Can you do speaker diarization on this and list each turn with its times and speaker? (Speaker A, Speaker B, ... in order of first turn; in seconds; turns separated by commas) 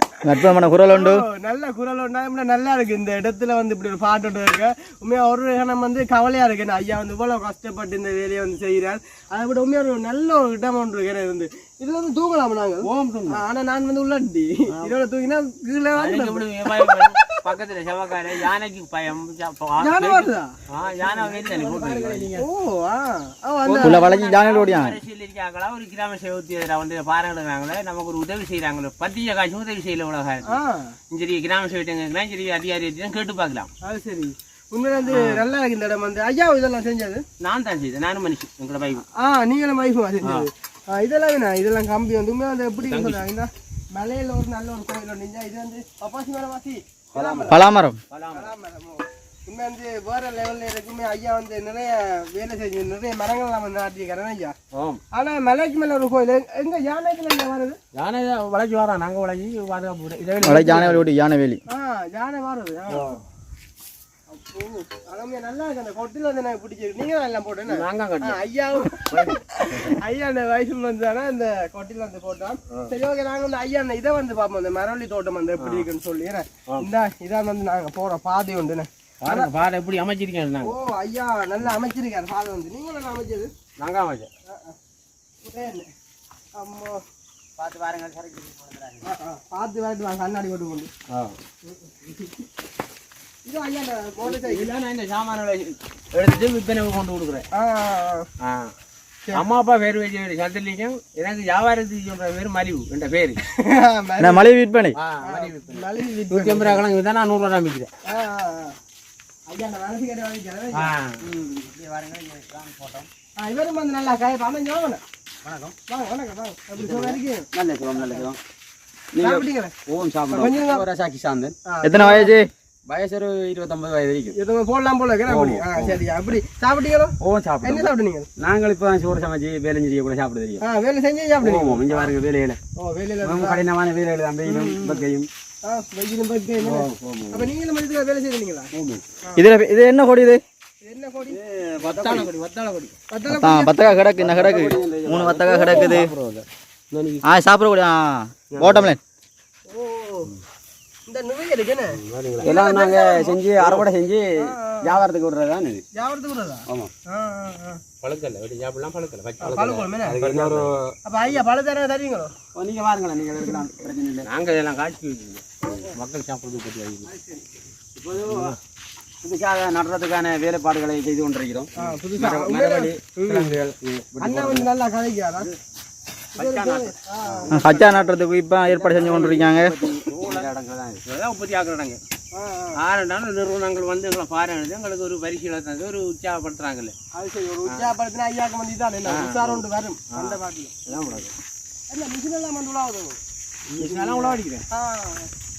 Speaker A: 0.2-1.2, Speaker B: 0.9-17.4, Speaker C: 12.9-13.4, Speaker C: 15.9-22.4, Speaker B: 19.8-20.5, Speaker D: 20.8-22.4, Speaker B: 22.4-24.0, Speaker C: 23.6-30.5, Speaker A: 23.8-25.0, Speaker B: 30.4-30.9, Speaker C: 31.1-33.7, Speaker B: 33.8-37.2, Speaker C: 35.1-35.4, Speaker C: 37.4-39.0, Speaker B: 39.1-47.6, Speaker C: 40.2-40.5, Speaker C: 42.8-43.2, Speaker D: 47.1-47.6, Speaker A: 47.5-48.0, Speaker C: 48.1-48.5, Speaker B: 48.3-54.5, Speaker C: 54.7-55.0, Speaker B: 55.1-57.8, Speaker C: 57.9-61.0, Speaker A: 60.4-61.6, Speaker B: 61.7-63.2, Speaker C: 62.9-63.2, Speaker B: 64.3-79.5, Speaker C: 67.7-68.4, Speaker C: 69.1-69.9, Speaker C: 75.6-75.9, Speaker C: 79.2-80.8, Speaker B: 80.6-83.5, Speaker C: 83.8-84.3, Speaker B: 84.5-84.7, Speaker B: 85.4-85.9, Speaker B: 86.5-87.0, Speaker D: 87.6-89.1, Speaker B: 89.0-90.9, Speaker C: 91.1-91.4, Speaker B: 91.7-92.3, Speaker B: 93.4-94.7, Speaker C: 94.2-97.5, Speaker B: 97.5-98.3, Speaker C: 98.4-98.7, Speaker C: 99.3-103.4, Speaker B: 103.5-104.5, Speaker A: 104.2-105.0, Speaker C: 104.9-107.9, Speaker B: 105.2-106.8, Speaker B: 108.0-108.8, Speaker B: 109.5-111.7, Speaker C: 110.7-111.2, Speaker D: 111.7-113.1, Speaker B: 113.4-115.0, Speaker D: 115.4-115.8, Speaker B: 115.9-117.5, Speaker D: 116.8-118.4, Speaker B: 118.0-118.3, Speaker D: 119.1-121.5, Speaker B: 119.2-119.7, Speaker B: 120.3-120.8, Speaker B: 121.7-122.3, Speaker A: 121.8-122.5, Speaker D: 122.9-124.3, Speaker B: 124.3-128.3, Speaker D: 125.3-126.0, Speaker D: 127.2-130.6, Speaker B: 130.6-132.1, Speaker D: 131.4-132.6, Speaker B: 132.7-133.7, Speaker D: 133.2-135.3, Speaker B: 134.4-135.0, Speaker B: 135.6-138.7, Speaker D: 136.6-137.5, Speaker D: 138.7-139.0, Speaker A: 139.4-140.4, Speaker B: 140.8-141.4, Speaker D: 141.3-142.3, Speaker C: 141.8-142.9, Speaker B: 143.1-143.9, Speaker A: 143.4-146.1, Speaker D: 144.2-146.0, Speaker C: 145.4-147.2, Speaker A: 147.2-149.0, Speaker C: 148.5-148.9, Speaker B: 149.7-150.3, Speaker B: 151.1-153.4, Speaker C: 152.0-152.5, Speaker D: 152.4-155.8, Speaker C: 153.5-153.8, Speaker B: 154.4-155.0, Speaker B: 155.9-157.8, Speaker C: 158.0-160.8, Speaker B: 159.4-160.2, Speaker D: 160.1-160.9, Speaker B: 161.0-162.3, Speaker D: 162.6-164.3, Speaker C: 164.2-167.1, Speaker B: 165.6-165.9, Speaker B: 167.1-167.5, Speaker D: 168.0-168.6, Speaker C: 168.1-168.6, Speaker D: 169.2-174.7, Speaker B: 171.8-173.6, Speaker B: 174.2-175.5, Speaker C: 176.3-177.0, Speaker B: 176.3-177.5, Speaker D: 177.2-178.1, Speaker A: 177.5-179.7, Speaker D: 178.7-181.0, Speaker C: 180.0-180.5, Speaker C: 181.1-182.0, Speaker B: 182.3-182.8, Speaker C: 182.8-186.9, Speaker B: 187.1-191.2, Speaker C: 189.1-191.3, Speaker B: 191.9-193.2, Speaker D: 193.8-194.4, Speaker C: 193.8-194.7, Speaker B: 194.7-195.3